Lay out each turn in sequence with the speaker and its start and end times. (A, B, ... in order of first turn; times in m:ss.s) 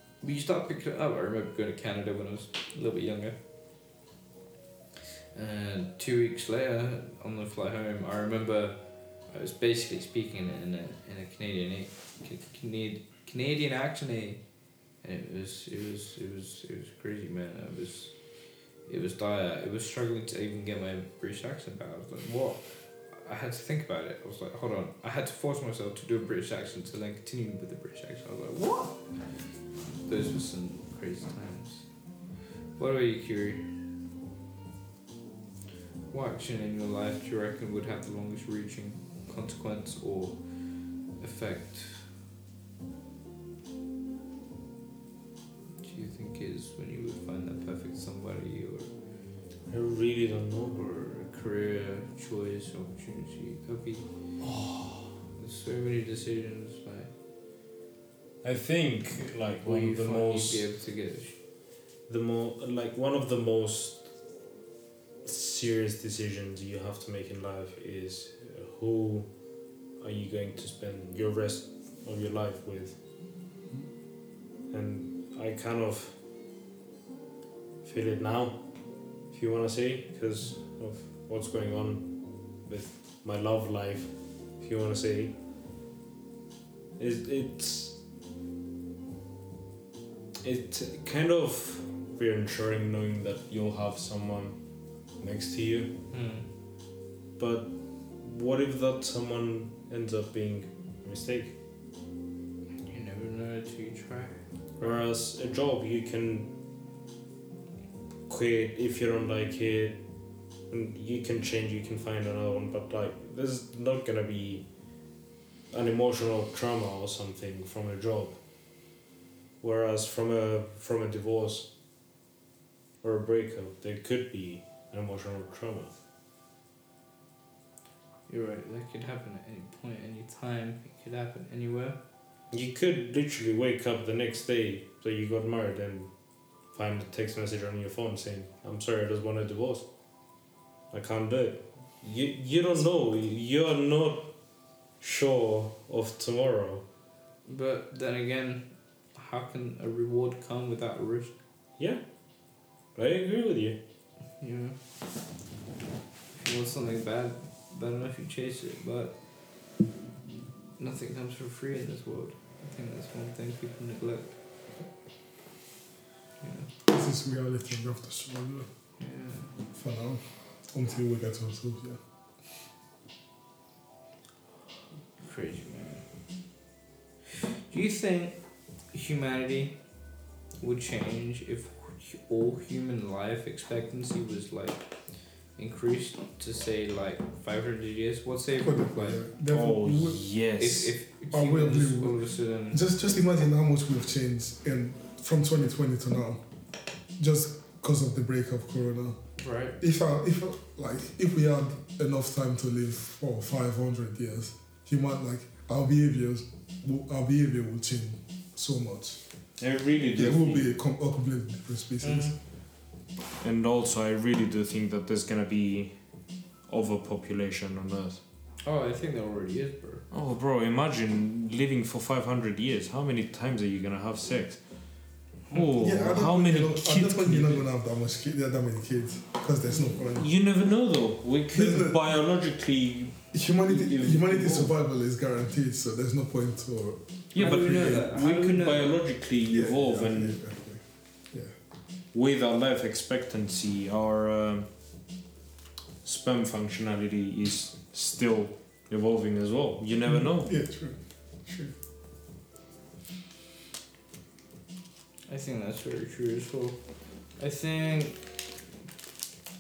0:00.2-0:03.4 A
0:05.3-0:14.4 A
0:15.0-0:18.2 A
0:18.9-0:29.0 A
0:30.1-0:31.9 A
0:32.8-0:33.7 A
0:36.1-0:40.4 A
0:41.0-0:42.1 A
0:45.8-0:48.9 A
0:49.7-0:50.8 B
0:50.7-0:54.1 A
0:54.4-0:55.1 B
0:55.4-0:57.1 A
0:58.4-1:00.7 B
0:59.6-1:01.4 A
1:02.1-1:04.1 B
1:05.2-1:09.3 B
1:10.0-1:13.0 B
1:14.7-1:16.2 B
1:17.8-1:18.7 B
1:19.3-1:25.3 B
1:27.0-1:28.0 B
1:30.4-1:34.6 B
1:35.2-1:35.9 B
1:36.1-1:36.5 A
1:37.4-1:41.6 B
1:42.9-1:45.0 A
1:44.8-1:46.5 B
1:48.3-1:50.0 B
1:50.7-1:54.6 B
1:55.7-1:58.4 B
1:59.6-2:01.7 B
2:03.0-2:05.9 B
2:08.3-2:12.0 A
2:12.5-2:16.1 B
2:16.7-2:19.9 B
2:20.9-2:24.3 B
2:25.0-2:26.8 B
2:27.4-2:31.4 A
2:33.0-2:33.8 B
2:34.4-2:34.8 A
2:36.4-2:39.2 A
2:40.8-2:44.3 A
2:46.4-2:46.7 A
2:46.9-2:48.7 C
2:49.0-2:49.5 A
2:49.7-2:52.0 C
2:55.2-2:56.0 A
2:57.3-2:58.4 A
2:58.9-2:59.8 A
3:00.6-3:04.9 A
3:05.5-3:09.2 A
3:08.6-3:10.2 C
3:09.5-3:10.9 B
3:10.6-3:12.8 A
3:11.3-3:16.4 C
3:17.2-3:19.2 C
3:19.4-3:19.8 A
3:19.8-3:29.2 C
3:29.6-3:30.7 B
3:30.2-3:32.4 C
3:32.0-3:32.4 A
3:33.4-3:36.0 B
3:36.7-3:38.2 B
3:38.6-3:40.1 A
3:40.1-3:47.6 B
3:45.8-3:50.3 C
3:50.2-3:54.7 B
3:51.5-3:52.1 C
3:53.3-3:57.0 C
3:57.3-4:00.4 B
3:57.4-3:59.0 A
3:59.5-4:01.5 C
4:02.1-4:04.7 B
4:06.0-4:10.6 B
4:10.2-4:11.8 C
4:15.3-4:18.3 A